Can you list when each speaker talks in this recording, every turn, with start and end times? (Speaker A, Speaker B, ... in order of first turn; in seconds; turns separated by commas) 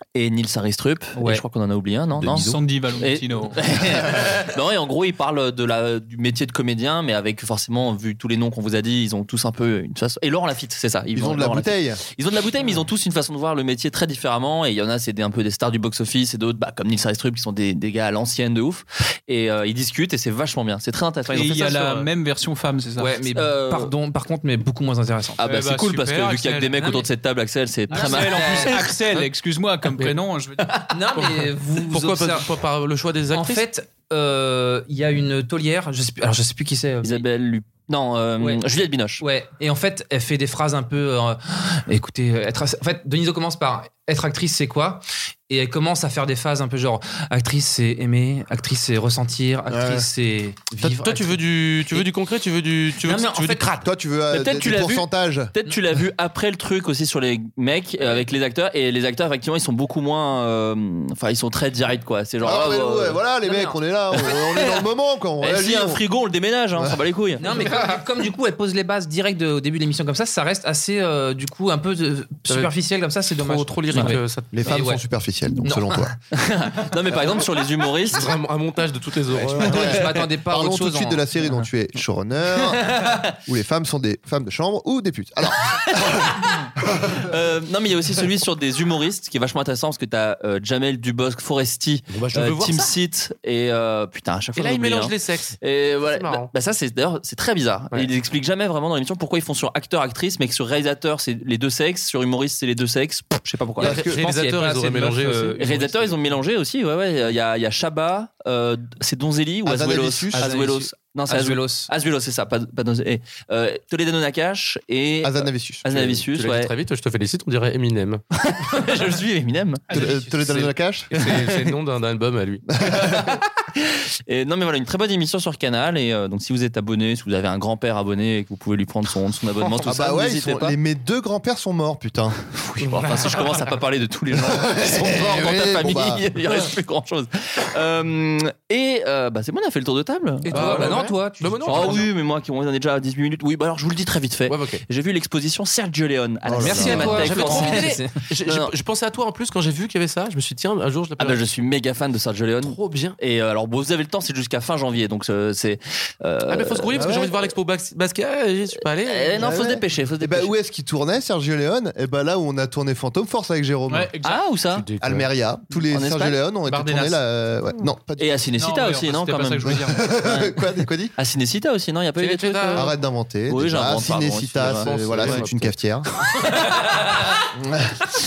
Speaker A: 0.1-22.1, Speaker B: 1.1-1.4, Speaker C: 2.2-4.0, Speaker D: 11.1-12.0, Speaker C: 21.3-23.1, Speaker B: 23.0-25.4, Speaker A: 23.3-23.9, Speaker A: 25.4-28.9, Speaker C: 25.4-27.1, Speaker B: 27.9-28.9, Speaker C: 27.9-30.8, Speaker E: 29.9-30.2, Speaker B: 30.9-32.5, Speaker E: 31.1-33.6, Speaker B: 33.3-37.2, Speaker A: 37.0-39.2, Speaker B: 39.2-52.1, Speaker D: 49.7-50.1, Speaker E: 50.8-53.9, Speaker B: 53.0-53.8, Speaker D: 53.8-55.5, Speaker A: 54.3-63.2, Speaker D: 62.4-66.0, Speaker B: 63.4-63.8, Speaker A: 64.3-64.8, Speaker A: 65.4-67.5, Speaker B: 67.4-75.0, Speaker E: 72.5-72.7, Speaker E: 73.3-74.7, Speaker D: 74.5-76.2, Speaker B: 75.6-76.1, Speaker A: 76.3-78.3, Speaker E: 78.1-80.1, Speaker D: 79.3-86.4, Speaker B: 79.6-81.2, Speaker A: 87.0-103.9, Speaker E: 92.1-92.9, Speaker E: 94.6-96.5, Speaker B: 103.5-105.7, Speaker D: 103.8-104.2, Speaker E: 103.8-106.2, Speaker A: 105.6-116.7, Speaker D: 109.7-110.5, Speaker B: 110.3-111.9, Speaker D: 115.2-116.2, Speaker E: 116.0-118.2, Speaker A: 118.3-119.9, Speaker C: 119.9-120.7, Speaker D: 119.9-121.1, Speaker E: 119.9-123.2, Speaker A: 121.1-121.8, Speaker D: 122.7-123.4, Speaker A: 123.8-130.8, Speaker D: 129.8-132.4, Speaker A: 132.5-141.1, Speaker E: 132.8-133.1, Speaker D: 134.3-136.3, Speaker E: 140.5-142.1, Speaker B: 140.5-142.1, Speaker A: 141.6-148.7, Speaker E: 144.5-144.8, Speaker D: 146.4-147.3, Speaker B: 146.6-148.1, Speaker E: 146.8-151.5, Speaker A: 151.2-157.5, Speaker E: 152.6-153.2, Speaker E: 156.5-159.7, Speaker D: 157.0-157.3, Speaker A: 159.0-160.5, Speaker D: 159.4-164.1, Speaker C: 163.9-164.6, Speaker A: 164.2-164.9, Speaker E: 164.7-165.3, Speaker D: 165.0-168.5, Speaker A: 165.9-166.4, Speaker C: 166.7-167.2, Speaker A: 168.2-170.6, Speaker C: 168.6-170.2, Speaker D: 169.6-171.1, Speaker A: 171.2-172.9, Speaker E: 172.2-172.9, Speaker D: 172.7-176.1, Speaker A: 173.5-175.7, Speaker E: 174.6-175.7, Speaker A: 176.2-177.4, Speaker D: 177.6-178.0